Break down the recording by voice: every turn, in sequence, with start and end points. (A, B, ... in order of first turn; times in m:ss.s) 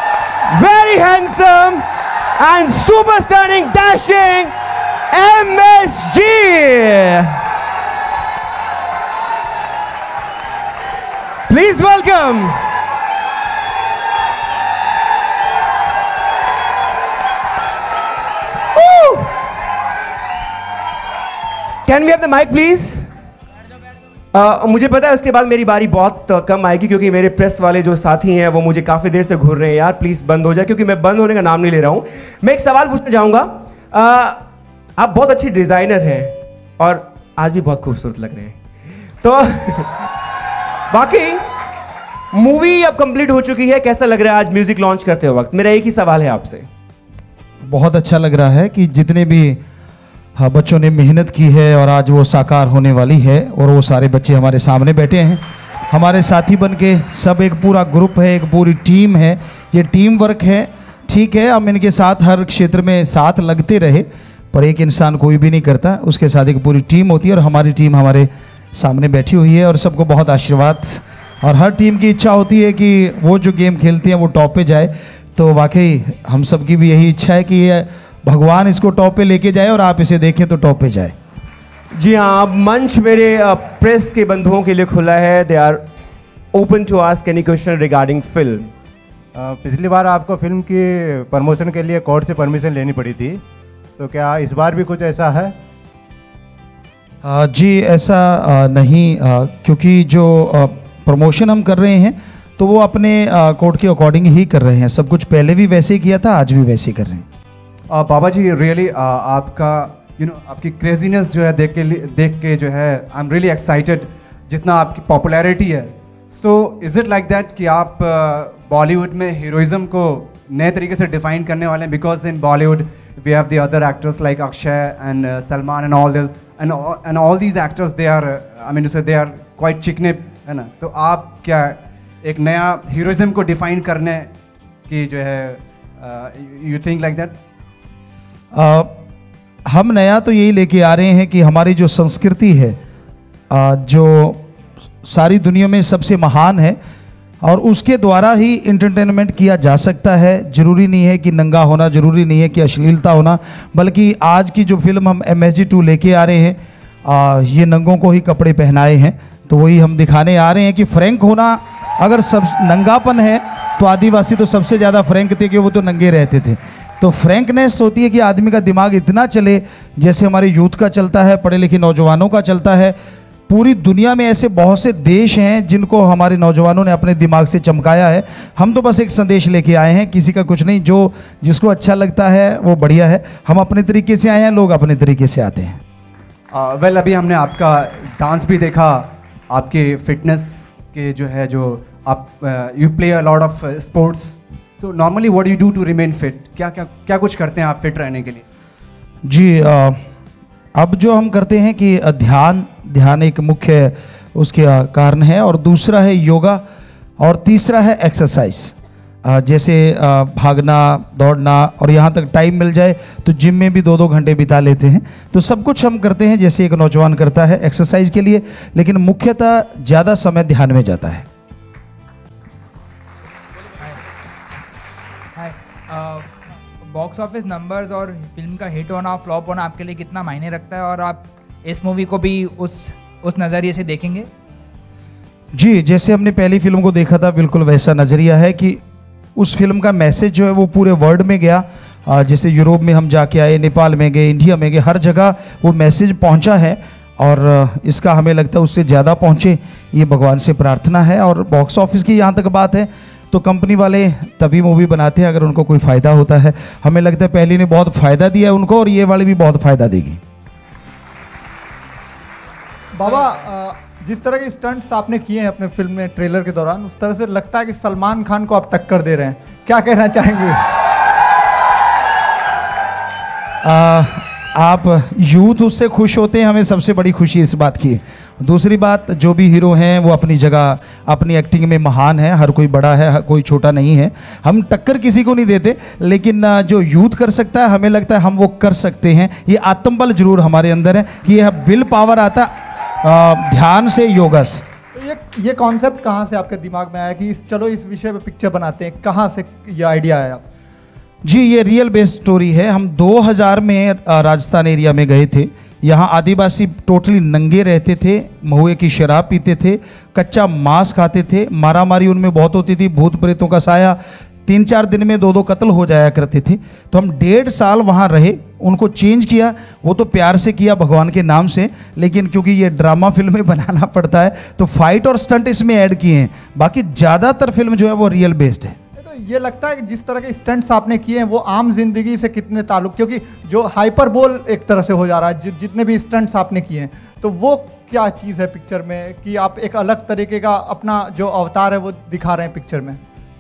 0:00.5-0:04.6 A
0:05.1-0:07.4 A
0:11.5-0:12.6 A
0:18.7-0:19.4 A
0:21.9-0:23.1 A
0:24.3-0:38.6 A
0:39.2-0:39.9 A
0:40.9-0:41.5 A
0:42.3-0:46.7 A
0:47.6-0:49.6 B
0:50.4-1:21.2 B
1:22.0-1:25.9 A
1:26.5-1:28.7 A
1:29.4-1:33.4 C
1:34.0-1:35.6 C
1:37.2-1:47.2 B
1:47.9-2:14.3 D
2:14.9-2:17.4 D
2:18.5-2:19.0 B
2:19.7-2:22.8 B
2:23.5-2:24.4 B
2:25.0-2:26.8 B
2:27.4-2:53.0 B
2:53.5-3:05.8 B
3:06.5-3:18.4 D
3:19.2-3:20.0 B
3:20.8-3:26.6 B
3:27.2-3:41.3 B
3:45.4-3:46.3 E
3:46.9-3:54.3 E
3:55.5-3:58.8 B
3:59.4-4:20.2 B
4:22.9-4:30.7 F
4:33.6-4:54.6 B
4:55.0-5:00.4 F
5:01.2-5:28.8 B
5:29.0-5:43.0 F